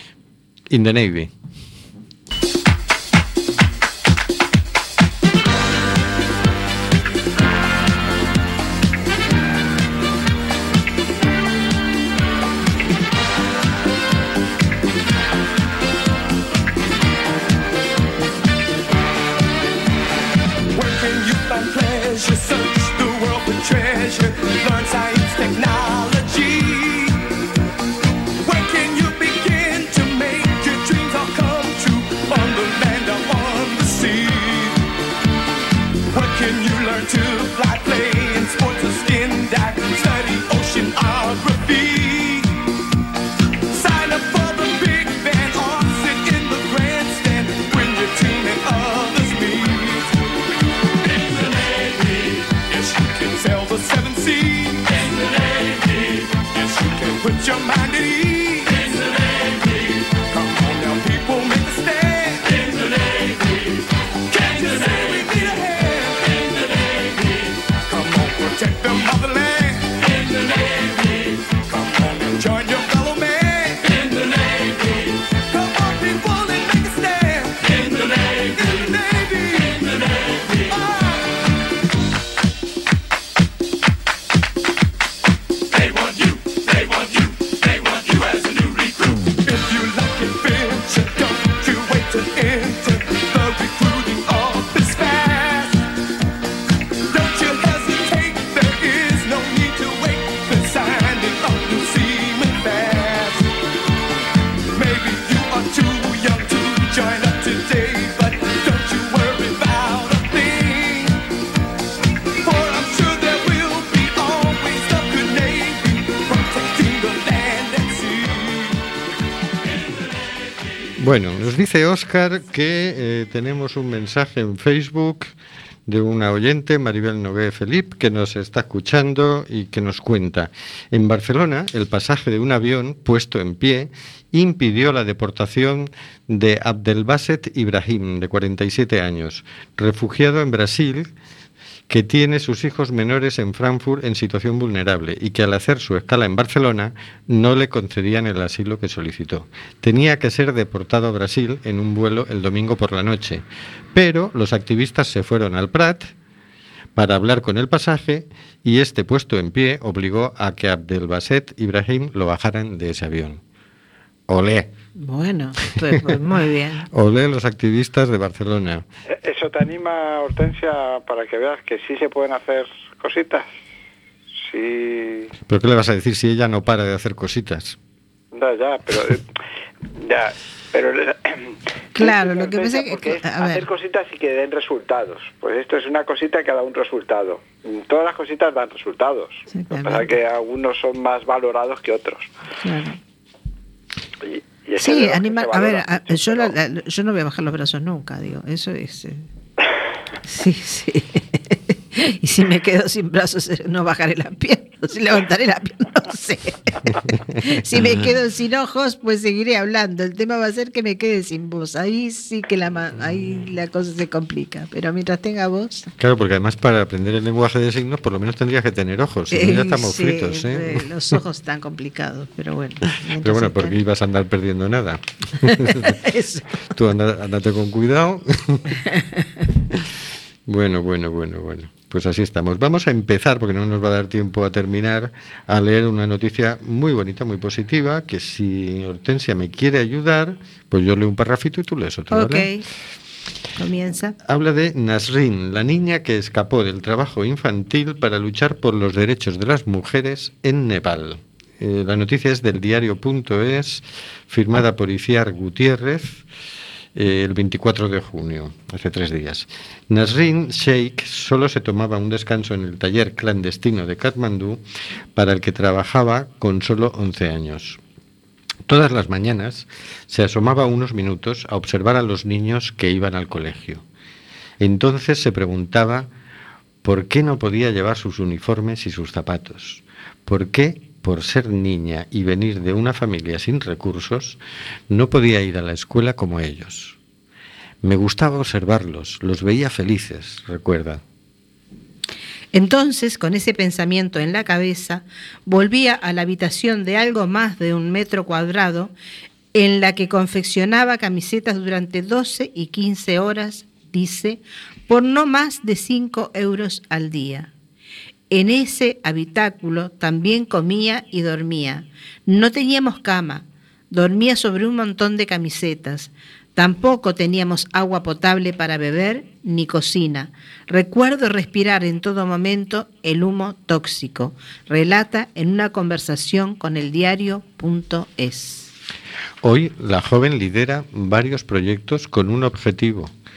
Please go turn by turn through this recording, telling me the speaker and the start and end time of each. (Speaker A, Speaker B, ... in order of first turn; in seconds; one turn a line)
Speaker A: 0.7-1.3
Speaker A: 121.0-125.3
Speaker A: 125.8-141.1
Speaker A: 141.9-156.1
Speaker A: 156.9-163.4
Speaker A: 164.3-164.7
Speaker B: 165.0-166.9
Speaker A: 166.9-168.8
Speaker C: 169.1-173.5
Speaker C: 174.4-175.3
Speaker A: 175.5-177.8
Speaker C: 178.3-179.2
Speaker C: 179.9-192.3
Speaker B: 181.9-183.6
Speaker B: 189.5-190.1
Speaker B: 192.6-193.0
Speaker C: 194.2-196.5
Speaker B: 194.8-199.2
Speaker B: 200.2-215.9
Speaker A: 216.0-220.9
Speaker B: 219.3-223.8
Speaker A: 223.2-226.0
Speaker B: 225.4-226.5
Speaker A: 226.6-228.8
Speaker A: 230.4-242.5
Speaker B: 242.1-242.6
Speaker B: 243.6-244.2
Speaker A: 244.2-256.2
Speaker A: 256.9-264.6
Speaker A: 265.1-267.8
Speaker A: 268.6-273.8
Speaker A: 274.6-276.1
Speaker A: 276.8-287.0
Speaker A: 287.8-291.0
Speaker B: 292.5-298.9
Speaker B: 299.5-307.5
Speaker B: 308.3-328.7
Speaker A: 329.4-333.1